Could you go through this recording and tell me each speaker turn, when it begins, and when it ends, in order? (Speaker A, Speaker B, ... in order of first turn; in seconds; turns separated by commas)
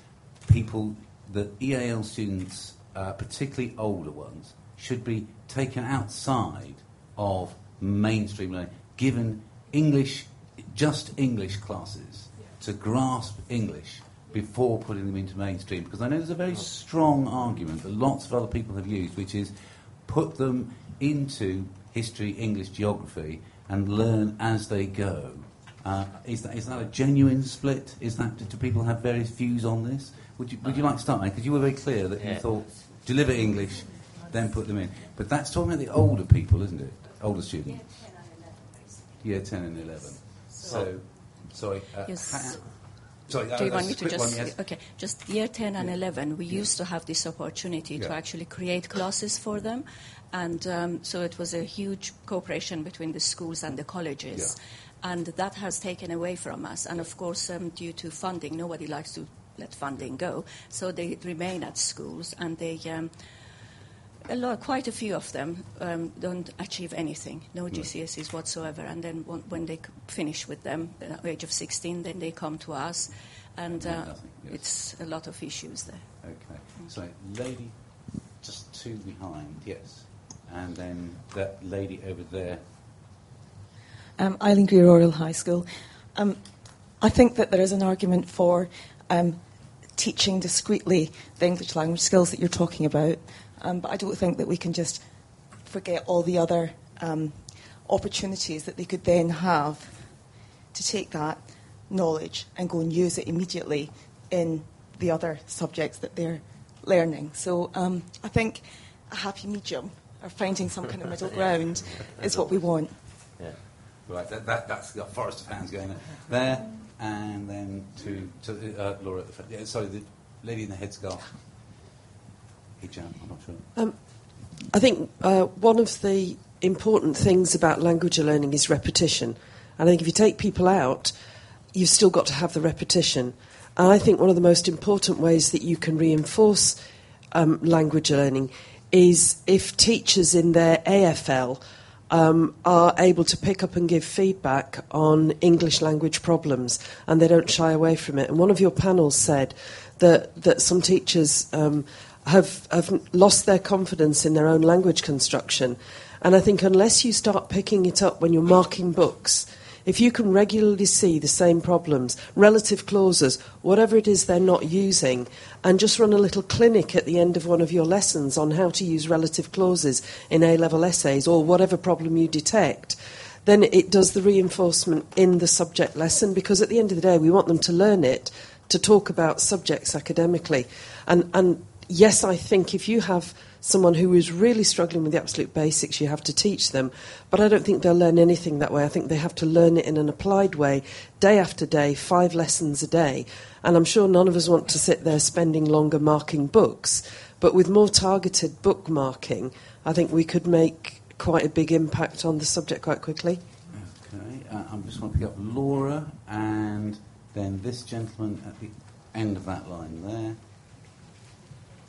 Speaker A: 0.5-19.5, Speaker A: 20.1-38.0, Speaker A: 39.2-44.6, Speaker B: 42.1-42.6, Speaker B: 43.5-63.1, Speaker A: 45.8-46.7, Speaker B: 64.2-76.1, Speaker A: 73.7-74.6, Speaker A: 76.2-82.6, Speaker C: 84.2-113.0, Speaker A: 114.1-121.4, Speaker A: 122.8-123.7, Speaker D: 124.7-131.1, Speaker D: 131.7-136.8, Speaker D: 137.3-203.4, Speaker A: 203.7-210.4